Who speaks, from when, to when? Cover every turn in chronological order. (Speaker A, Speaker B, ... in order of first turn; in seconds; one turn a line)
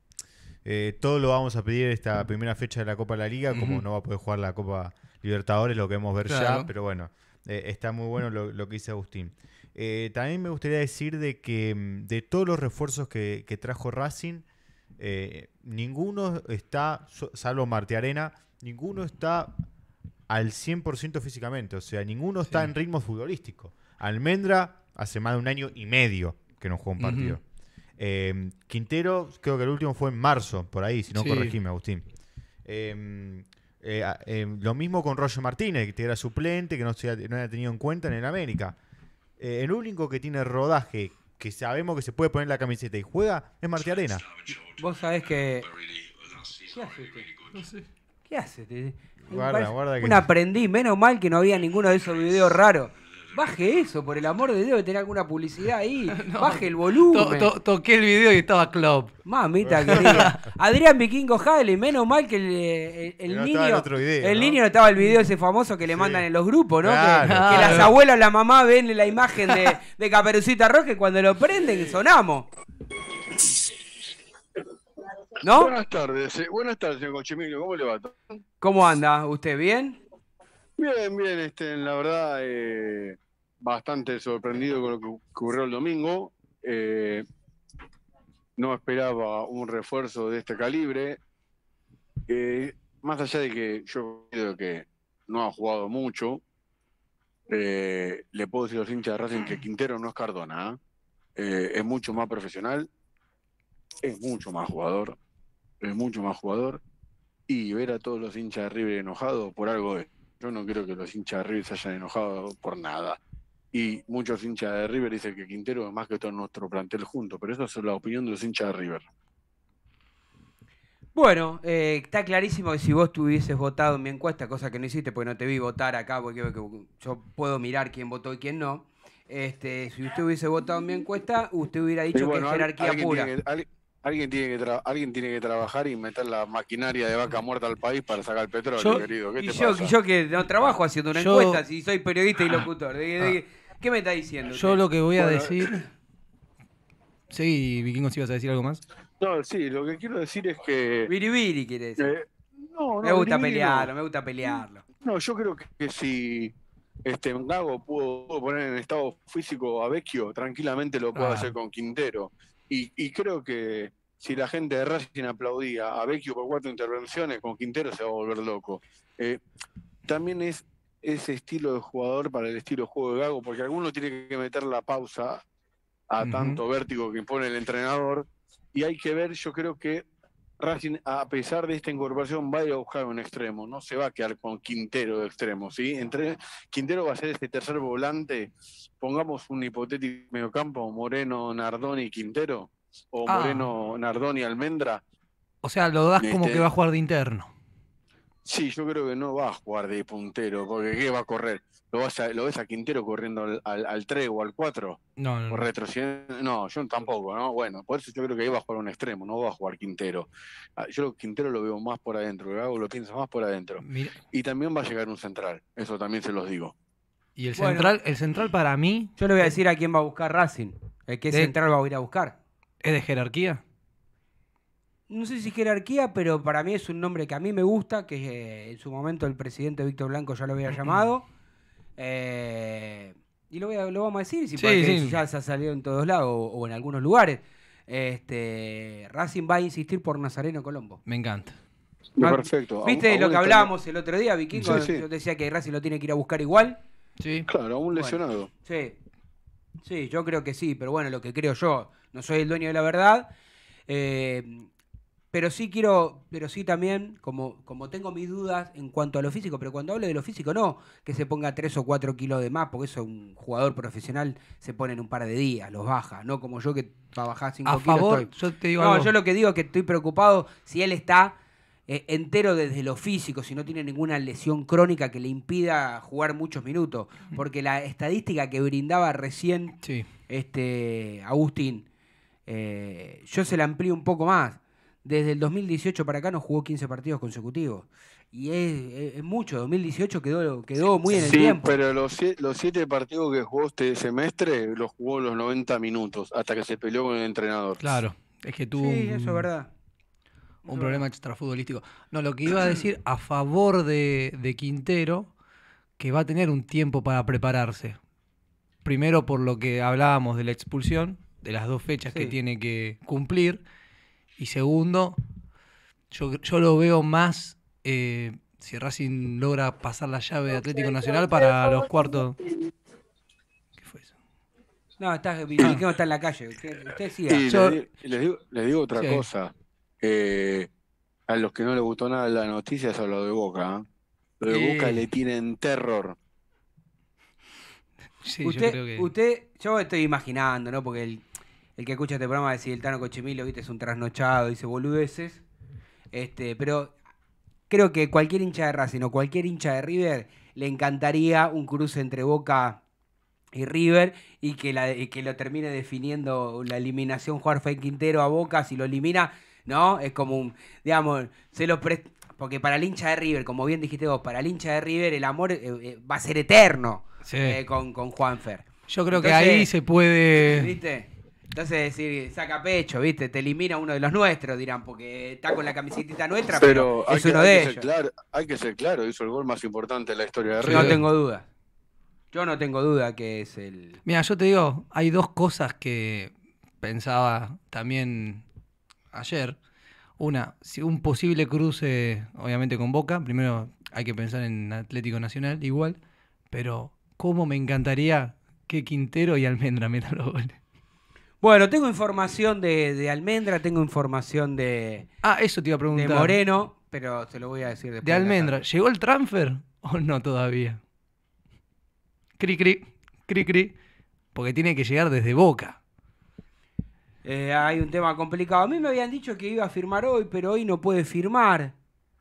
Speaker A: 0.6-14.4
Speaker B: 3.5-3.8
Speaker B: 6.2-6.7
Speaker A: 15.0-19.6
Speaker A: 20.3-27.4
Speaker B: 27.0-27.4
Speaker A: 28.0-32.0
Speaker B: 31.1-31.5
Speaker A: 32.6-38.8
Speaker A: 39.4-44.4
Speaker C: 44.8-45.8
Speaker C: 46.6-47.3
Speaker B: 47.5-47.8
Speaker C: 48.3-57.5
Speaker A: 49.3-50.3
Speaker B: 56.1-59.2
Speaker C: 59.2-72.5
Speaker A: 59.6-60.4
Speaker B: 60.0-60.4
Speaker A: 63.3-64.6
Speaker A: 66.8-67.9
Speaker B: 67.2-67.9
Speaker C: 75.4-75.7
Speaker D: 75.5-78.3
Speaker C: 78.6-80.0
Speaker D: 80.8-87.2
Speaker D: 88.6-91.2
Speaker D: 92.3-96.4
Speaker D: 97.5-100.8
Speaker D: 101.4-102.9
Speaker D: 104.0-105.2
Speaker D: 105.8-106.8
Speaker D: 107.5-113.2
Speaker D: 113.7-119.0
Speaker C: 121.1-133.3
Speaker D: 132.1-139.9
Speaker B: 138.8-139.1
Speaker C: 139.4-144.8
Speaker B: 141.1-141.6
Speaker B: 144.5-145.8
Speaker D: 145.2-145.6
Speaker B: 147.3-148.8
Speaker D: 149.2-151.1
Speaker C: 151.1-152.1
Speaker D: 152.0-153.9
Speaker C: 153.0-154.8
Speaker D: 155.0-156.5
Speaker D: 157.1-169.4
Speaker B: 161.2-161.5
Speaker D: 170.1-175.4
Speaker D: 176.1-180.0
Speaker B: 176.2-176.6
Speaker D: 180.6-195.0
Speaker B: 193.2-193.7
Speaker B: 195.6-197.5
Speaker D: 196.2-196.6
Speaker D: 198.4-216.7
Speaker B: 205.2-205.7
Speaker B: 213.8-214.2
Speaker B: 217.4-219.5
Speaker C: 217.6-217.9
Speaker C: 219.2-222.4
Speaker B: 222.8-223.6
Speaker C: 225.1-231.2
Speaker C: 232.0-241.0
Speaker B: 234.6-235.2
Speaker B: 241.1-241.6
Speaker D: 242.2-243.7
Speaker C: 242.2-246.8
Speaker D: 244.6-245.0
Speaker B: 247.2-247.5
Speaker D: 247.5-248.5
Speaker C: 247.9-248.9
Speaker C: 249.8-253.3
Speaker C: 253.9-254.7
Speaker C: 255.3-271.4
Speaker B: 267.6-269.1
Speaker C: 271.9-279.8
Speaker C: 280.3-281.9
Speaker C: 282.5-291.7
Speaker D: 291.1-298.0
Speaker B: 297.8-299.5
Speaker C: 298.8-299.7
Speaker C: 300.6-301.0
Speaker B: 300.7-305.3
Speaker B: 306.0-308.0
Speaker B: 308.8-313.6
Speaker B: 314.4-315.2
Speaker B: 316.1-322.4
Speaker B: 323.8-324.1
Speaker C: 325.0-327.4
Speaker D: 327.3-330.7
Speaker B: 327.5-327.8
Speaker B: 328.9-329.2
Speaker D: 331.3-333.8
Speaker D: 334.4-336.2
Speaker B: 334.5-335.0
Speaker B: 338.2-339.1
Speaker C: 338.4-341.2
Speaker C: 341.8-345.4
Speaker C: 346.1-346.9
Speaker C: 347.7-352.8
Speaker C: 353.5-369.7
Speaker B: 367.2-367.6
Speaker B: 368.9-370.7
Speaker C: 370.4-377.9
Speaker D: 376.5-381.0
Speaker B: 380.6-381.0
Speaker C: 380.6-381.5
Speaker C: 382.3-384.0
Speaker B: 384.0-386.3
Speaker B: 386.8-388.4
Speaker B: 389.1-389.6
Speaker B: 390.2-396.0
Speaker B: 396.5-400.6
Speaker C: 401.4-405.1
Speaker B: 405.2-406.4
Speaker C: 405.9-408.6
Speaker B: 408.0-410.8
Speaker B: 412.4-413.7
Speaker B: 414.3-415.8
Speaker C: 417.2-421.7